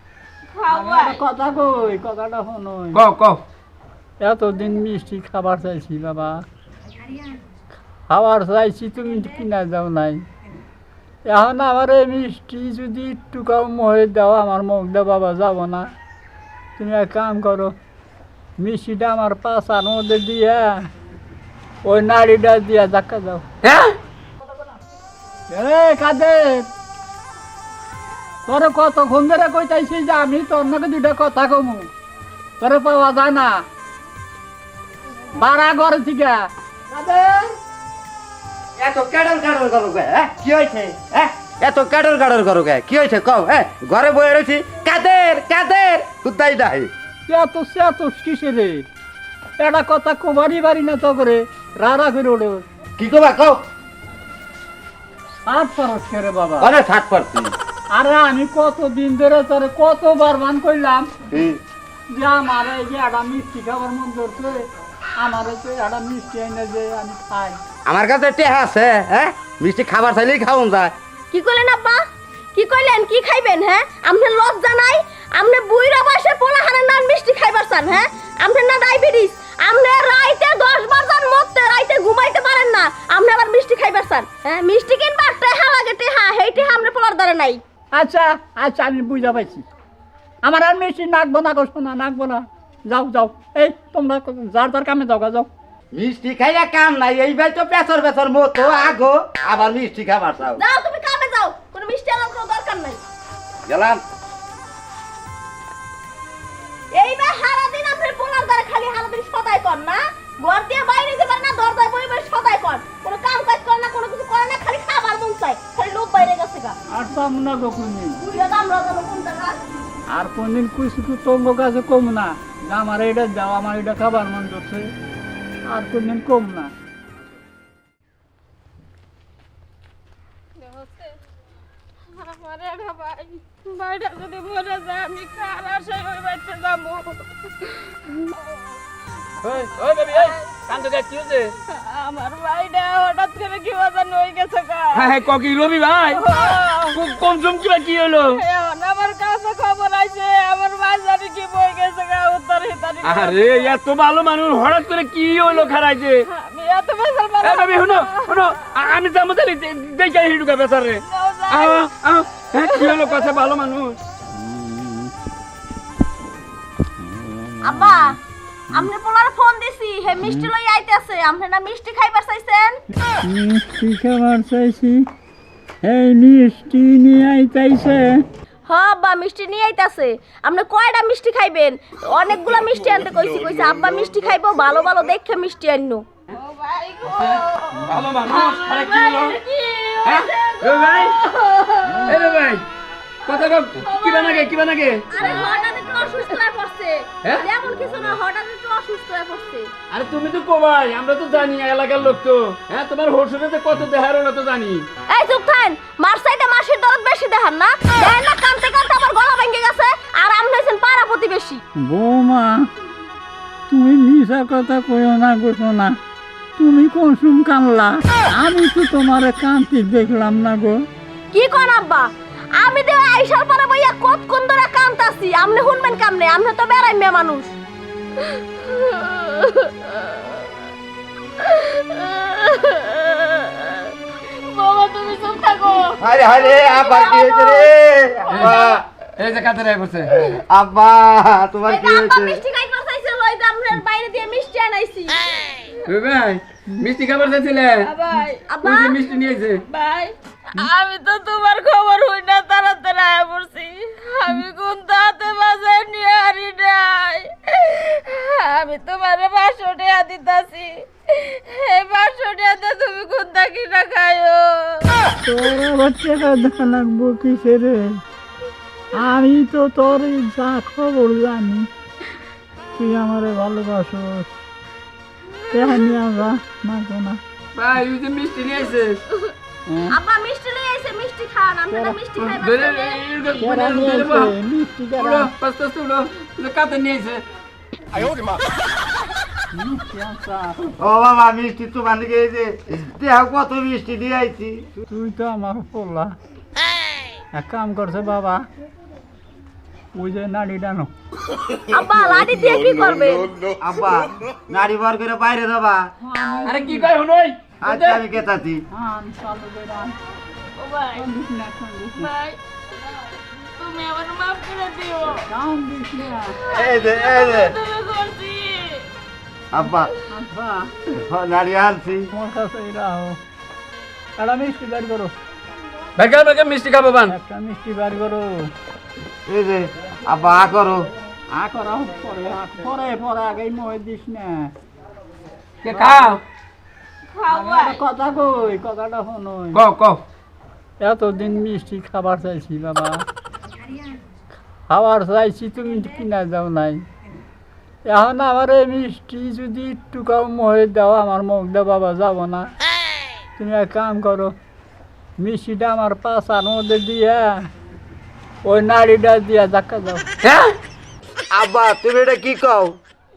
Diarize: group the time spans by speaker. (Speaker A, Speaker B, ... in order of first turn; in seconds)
Speaker A: 0.6-1.2, 71.3-87.6, 100.6-103.0, 106.9-116.8, 118.2-119.6, 167.6-168.2, 168.7-172.8, 178.7-186.1, 188.3-188.6, 193.8-194.5, 195.1-199.7, 205.1-211.6, 221.3-227.5, 236.2-237.7, 238.3-238.8, 241.7-245.2, 247.9-249.1, 249.7-250.1, 279.9-283.0, 301.7-303.4
Speaker B: 0.7-3.0, 4.2-6.5, 8.1-10.2, 11.3-15.9, 16.8-17.8, 18.6-20.9, 21.8-23.4, 25.5-26.7, 28.5-31.9, 32.6-33.6, 35.4-37.5, 47.3-48.9, 49.6-52.6, 55.5-56.7, 57.9-61.2, 62.1-64.7, 65.2-67.6, 87.9-89.7, 90.4-95.5, 116.9-118.2, 120.1-124.9, 125.7-126.7, 164.6-164.9, 170.2-170.5, 173.2-175.1, 175.8-178.2, 211.8-212.7, 213.7-216.0, 216.6-220.8, 265.2-268.0, 268.9-271.7, 272.8-274.4, 275.5-277.2, 279.7-280.0, 281.7-282.0, 283.3-285.3, 289.5-290.7, 294.8-296.2, 297.3-298.4, 299.9-300.9, 306.0-306.9, 308.7-310.0, 310.9-312.1, 315.2-316.4, 320.1-320.7, 322.1-323.2, 324.2-325.1, 327.1-328.5, 331.3-334.5, 335.7-336.2, 337.3-339.6, 340.8-343.0, 344.7-346.8, 347.9-352.5, 353.4-354.3, 355.2-357.5, 358.4-360.1
Speaker C: 2.9-3.4, 23.6-24.0, 139.4-141.5, 144.9-146.3, 146.9-148.4, 153.0-156.3, 157.4-164.0, 187.1-189.4, 190.1-191.2, 191.9-192.7, 193.3-195.3, 199.9-204.9, 238.3-238.6, 239.2-240.2, 245.9-247.9, 248.6-249.6, 277.6-279.0, 282.2-284.3, 285.0-287.2, 306.4-308.0, 326.0-327.1, 335.6-336.2, 339.5-340.0, 360.2-360.6
Speaker D: 38.8-46.9, 53.0-53.6, 56.6-57.5, 61.3-61.6, 67.9-70.9, 95.9-100.6, 103.7-104.0, 236.0-238.8, 240.3-242.4, 290.8-294.6, 303.6-305.9, 307.6-308.6, 316.5-317.6, 319.5-319.9, 320.9-322.1, 329.3-330.9, 361.3-362.8
Speaker E: 130.6-131.2, 132.1-138.5, 140.1-140.7, 141.6-145.2, 146.1-147.0, 148.3-153.8, 155.5-158.6, 161.1-161.9, 162.5-163.3, 186.3-192.1, 195.2-195.8, 228.6-230.4, 231.4-236.0, 248.1-248.5, 250.5-265.1, 310.6-311.1, 312.0-312.4, 313.3-315.3, 316.4-318.9, 337.2-337.8